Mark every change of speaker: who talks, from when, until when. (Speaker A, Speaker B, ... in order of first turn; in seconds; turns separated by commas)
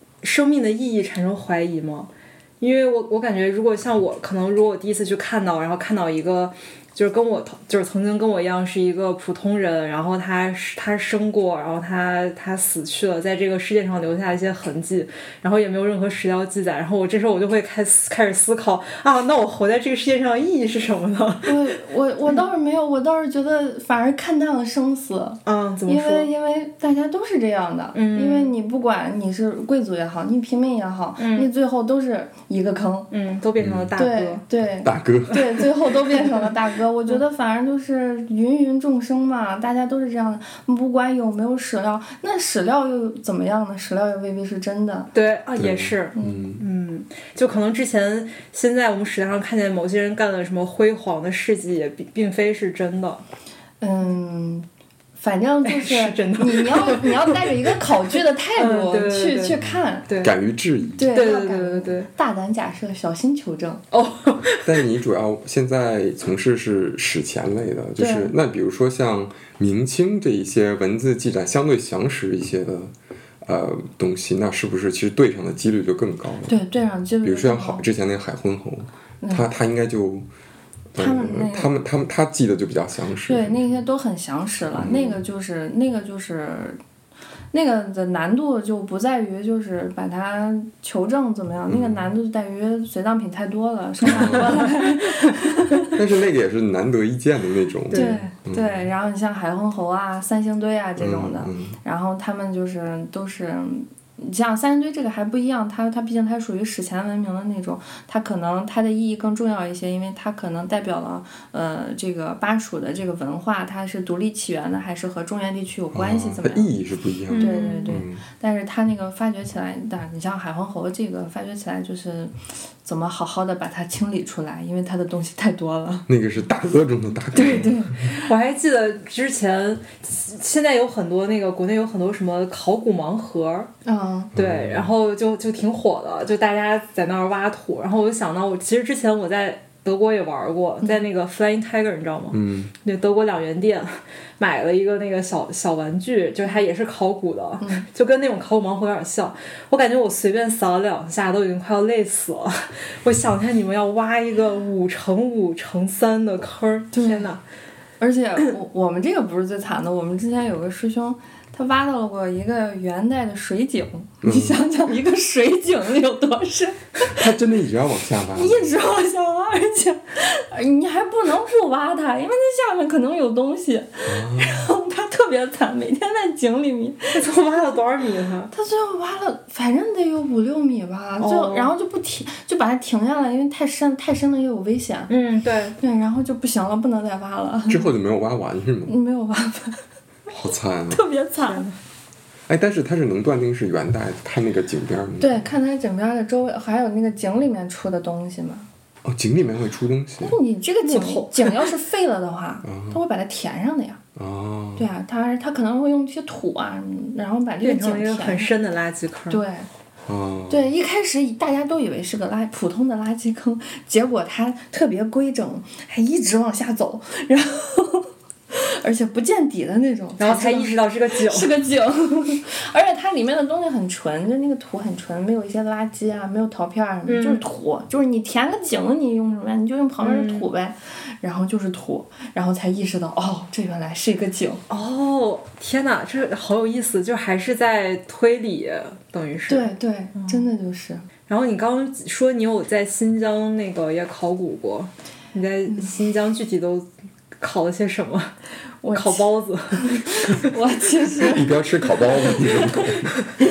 Speaker A: 0.2-2.1, Speaker A: 2.6-21.8, Speaker B: 21.4-33.1, Speaker A: 25.4-26.3, Speaker A: 27.9-28.5, Speaker A: 31.2-31.5, Speaker A: 33.1-34.4, Speaker C: 33.6-33.9, Speaker B: 34.0-45.1, Speaker C: 34.8-35.6, Speaker A: 45.1-53.2, Speaker C: 45.5-46.6, Speaker B: 46.1-46.4, Speaker B: 53.8-54.6, Speaker B: 55.2-60.0, Speaker A: 55.6-58.0, Speaker A: 58.6-59.5, Speaker C: 59.6-61.0, Speaker A: 60.1-60.3, Speaker B: 61.0-63.8, Speaker A: 61.1-62.1, Speaker A: 63.9-64.8, Speaker C: 64.6-72.9, Speaker B: 68.0-68.3, Speaker C: 73.4-76.5, Speaker B: 76.5-77.8, Speaker C: 77.2-80.2, Speaker B: 79.2-79.5, Speaker C: 80.9-83.8, Speaker B: 81.0-81.7, Speaker B: 83.2-86.8, Speaker C: 84.7-85.2, Speaker B: 87.5-96.0, Speaker C: 91.7-92.1, Speaker C: 94.0-94.7, Speaker A: 94.1-95.8, Speaker C: 95.9-98.9, Speaker A: 97.9-98.2, Speaker B: 97.9-116.7, Speaker C: 101.0-101.8, Speaker C: 115.9-118.2, Speaker A: 117.3-118.0, Speaker B: 117.4-126.1, Speaker C: 126.1-127.9, Speaker B: 127.3-128.3, Speaker A: 127.4-127.6, Speaker A: 128.2-133.7, Speaker B: 133.8-134.3, Speaker C: 134.3-134.9, Speaker A: 134.3-157.4, Speaker C: 142.3-142.7, Speaker B: 147.6-147.8, Speaker B: 156.9-157.3, Speaker B: 158.0-167.3, Speaker C: 164.2-164.6, Speaker C: 167.1-168.7, Speaker B: 168.3-177.3, Speaker C: 174.0-174.7, Speaker A: 177.1-178.5, Speaker B: 178.5-185.1, Speaker A: 181.2-181.7, Speaker A: 185.1-185.8, Speaker B: 185.8-187.9, Speaker C: 187.7-188.9, Speaker B: 188.9-189.8, Speaker C: 190.3-191.0, Speaker B: 190.9-191.7, Speaker A: 191.4-191.7, Speaker C: 192.5-195.5, Speaker B: 195.2-198.7, Speaker C: 199.0-200.4, Speaker B: 200.2-204.0, Speaker A: 200.8-201.7, Speaker C: 202.6-203.0, Speaker C: 204.2-204.8, Speaker B: 204.8-208.5, Speaker A: 207.6-209.4, Speaker B: 209.3-209.7, Speaker C: 210.1-210.7, Speaker B: 210.5-234.6, Speaker A: 220.2-221.6, Speaker A: 227.1-227.4, Speaker A: 230.0-230.5, Speaker A: 234.7-240.5, Speaker B: 239.5-241.1, Speaker A: 241.3-246.9, Speaker A: 247.4-248.3, Speaker B: 248.8-252.9, Speaker A: 248.9-250.5, Speaker C: 251.2-253.2